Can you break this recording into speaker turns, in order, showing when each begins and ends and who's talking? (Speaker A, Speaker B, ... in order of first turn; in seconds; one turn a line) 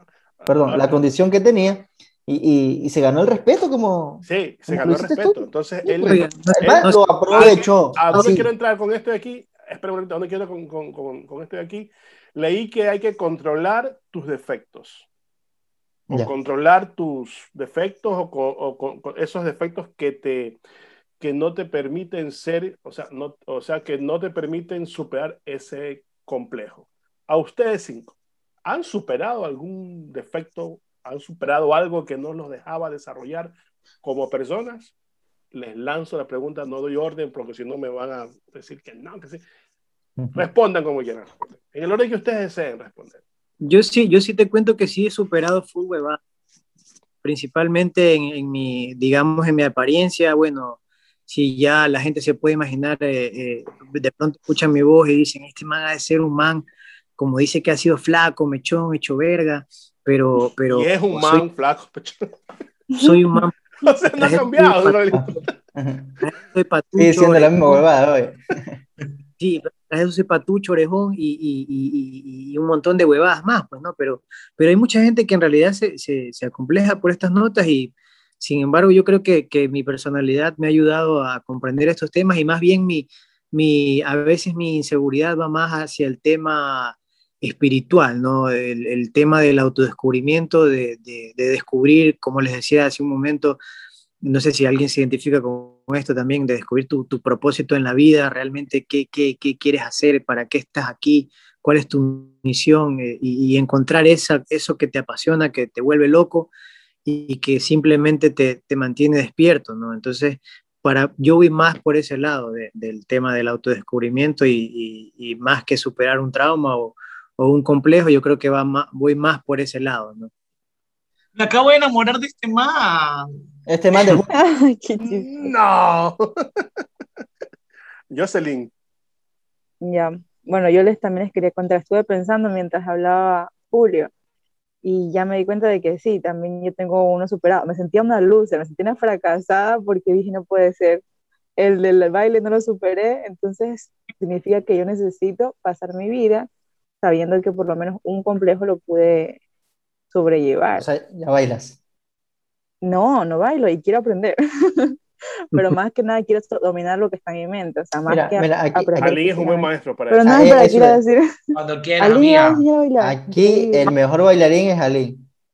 Speaker A: 0.4-1.0
Speaker B: 0.5-8.5
Speaker A: 4.2-15.1
Speaker C: 5.9-8.4
Speaker A: 16.1-20.6
Speaker A: 21.2-34.9
Speaker A: 35.5-39.4
Speaker B: 40.2-40.5
Speaker A: 40.3-43.2
Speaker C: 43.6-46.2
Speaker C: 47.2-56.6
Speaker C: 57.2-61.4
Speaker A: 60.6-62.3
Speaker C: 63.0-63.5
Speaker D: 63.0-63.4
Speaker A: 63.8-65.5
Speaker C: 64.2-65.0
Speaker B: 65.1-66.2
Speaker C: 66.2-67.8
Speaker B: 67.0-68.8
Speaker C: 69.4-93.6
Speaker C: 94.2-106.5
Speaker C: 107.0-120.3
Speaker E: 121.3-123.3
Speaker B: 123.7-124.2
Speaker D: 124.3-125.5
Speaker A: 125.0-126.8
Speaker A: 128.1-128.7
Speaker D: 129.8-134.1
Speaker D: 134.8-141.0
Speaker D: 141.6-146.5
Speaker D: 147.0-149.4
Speaker D: 150.1-150.8
Speaker B: 150.8-151.8
Speaker D: 152.8-155.0
Speaker D: 155.5-163.9
Speaker B: 158.1-159.2
Speaker A: 159.0-160.3
Speaker B: 160.2-161.0
Speaker E: 161.5-162.6
Speaker B: 163.0-165.2